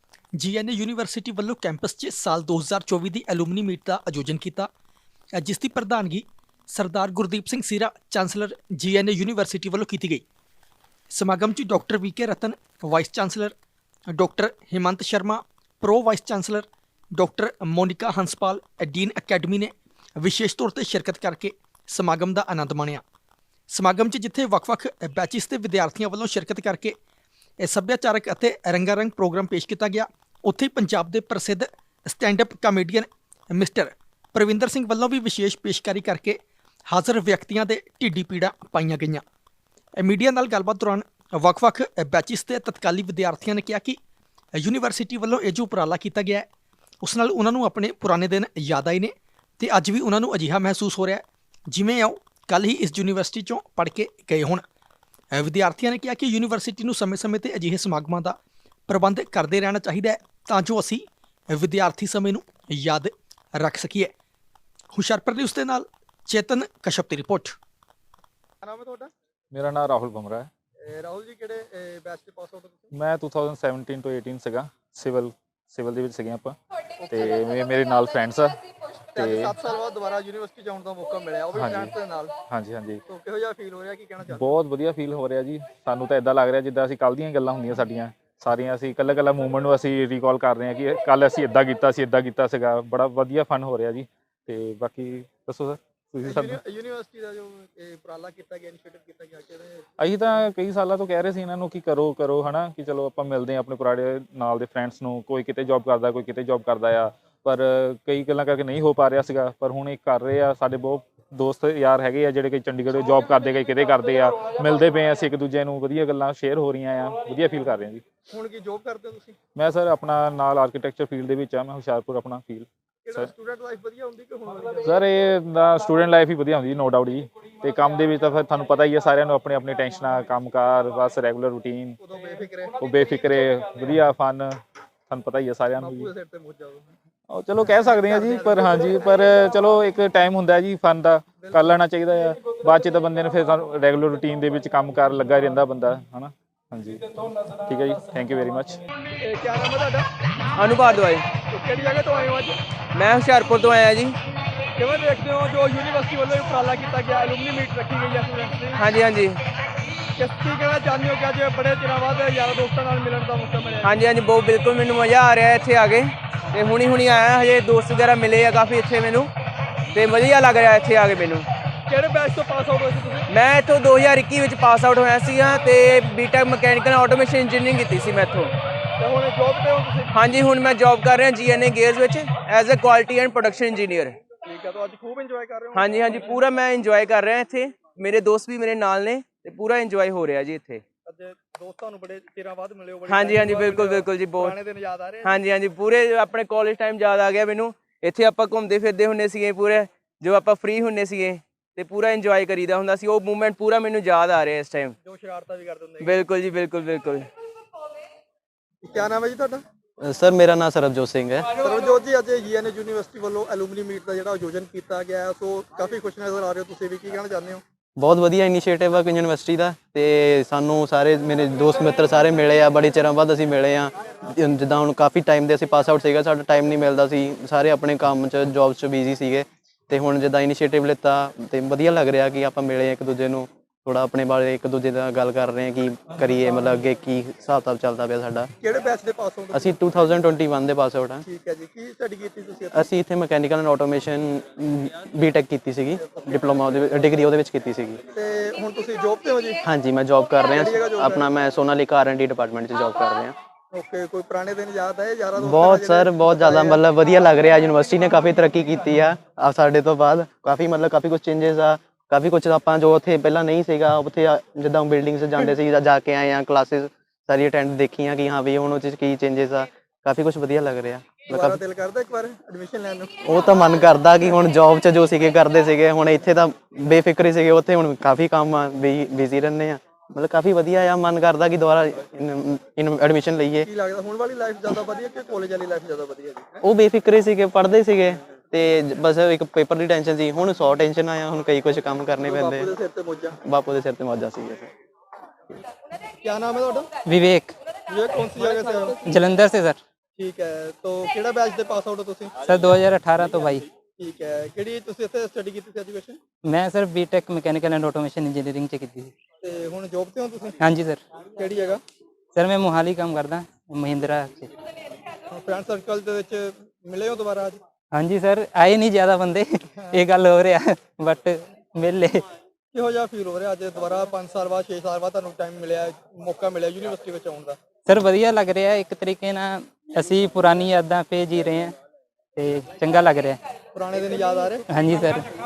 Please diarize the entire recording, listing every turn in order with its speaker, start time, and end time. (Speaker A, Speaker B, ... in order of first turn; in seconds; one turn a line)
Speaker A: 0.3-4.7
Speaker A: 5.3-10.2
Speaker A: 11.1-13.5
Speaker A: 14.1-23.0
Speaker A: 23.7-27.0
Speaker A: 27.6-39.2
Speaker A: 40.0-44.0
Speaker A: 44.6-46.5
Speaker A: 47.0-54.6
Speaker A: 55.3-64.1
Speaker A: 64.9-67.6
Speaker B: 68.6-69.1
Speaker C: 69.5-70.5
Speaker B: 70.8-72.9
Speaker C: 72.9-76.5
Speaker B: 77.0-77.5
Speaker C: 77.1-78.6
Speaker C: 79.1-79.5
Speaker B: 79.2-82.3
Speaker C: 81.5-81.9
Speaker C: 82.5-83.0
Speaker B: 83.1-84.5
Speaker C: 84.2-96.6
Speaker B: 96.2-99.8
Speaker C: 100.0-118.0
Speaker B: 118.3-119.4
Speaker C: 119.5-123.3
Speaker B: 123.0-124.9
Speaker C: 124.8-132.0
Speaker B: 132.0-132.8
Speaker C: 132.8-134.6
Speaker C: 135.1-136.1
Speaker B: 135.8-136.9
Speaker C: 137.3-148.8
Speaker B: 137.8-139.1
Speaker B: 141.4-141.7
Speaker B: 148.9-150.1
Speaker D: 150.6-151.3
Speaker B: 151.5-152.5
Speaker D: 152.9-154.2
Speaker B: 154.8-158.8
Speaker D: 158.8-159.4
Speaker B: 160.2-164.0
Speaker D: 163.8-169.3
Speaker D: 169.9-171.5
Speaker B: 171.9-173.3
Speaker D: 173.3-178.5
Speaker B: 179.0-180.1
Speaker D: 180.1-184.2
Speaker B: 184.4-186.1
Speaker D: 185.7-190.8
Speaker B: 191.0-195.4
Speaker D: 193.1-194.6
Speaker D: 195.2-204.9
Speaker B: 205.0-206.2
Speaker D: 206.0-207.3
Speaker B: 208.8-209.6
Speaker E: 210.0-211.6
Speaker B: 211.6-217.6
Speaker E: 218.0-238.5
Speaker B: 238.6-239.8
Speaker E: 239.5-241.2
Speaker B: 241.2-242.9
Speaker E: 242.7-248.0
Speaker B: 246.1-246.5
Speaker B: 248.1-249.6
Speaker E: 249.6-253.3
Speaker B: 250.5-251.2
Speaker B: 253.7-256.8
Speaker E: 255.4-271.6
Speaker B: 271.3-273.1
Speaker E: 273.2-283.7
Speaker B: 283.6-286.6
Speaker E: 286.6-292.7
Speaker B: 292.2-293.4
Speaker E: 293.4-294.7
Speaker B: 296.2-296.9
Speaker F: 297.0-297.5
Speaker B: 297.9-299.2
Speaker F: 298.9-299.8
Speaker B: 300.2-302.6
Speaker F: 302.4-303.7
Speaker B: 303.7-306.2
Speaker F: 306.4-309.1
Speaker B: 309.4-310.6
Speaker F: 310.6-311.0
Speaker B: 311.4-311.8
Speaker F: 312.3-314.5
Speaker B: 315.3-317.6
Speaker F: 317.9-322.2
Speaker B: 322.7-327.6
Speaker F: 327.9-331.7
Speaker F: 332.4-333.4
Speaker B: 333.7-334.6
Speaker F: 334.7-335.3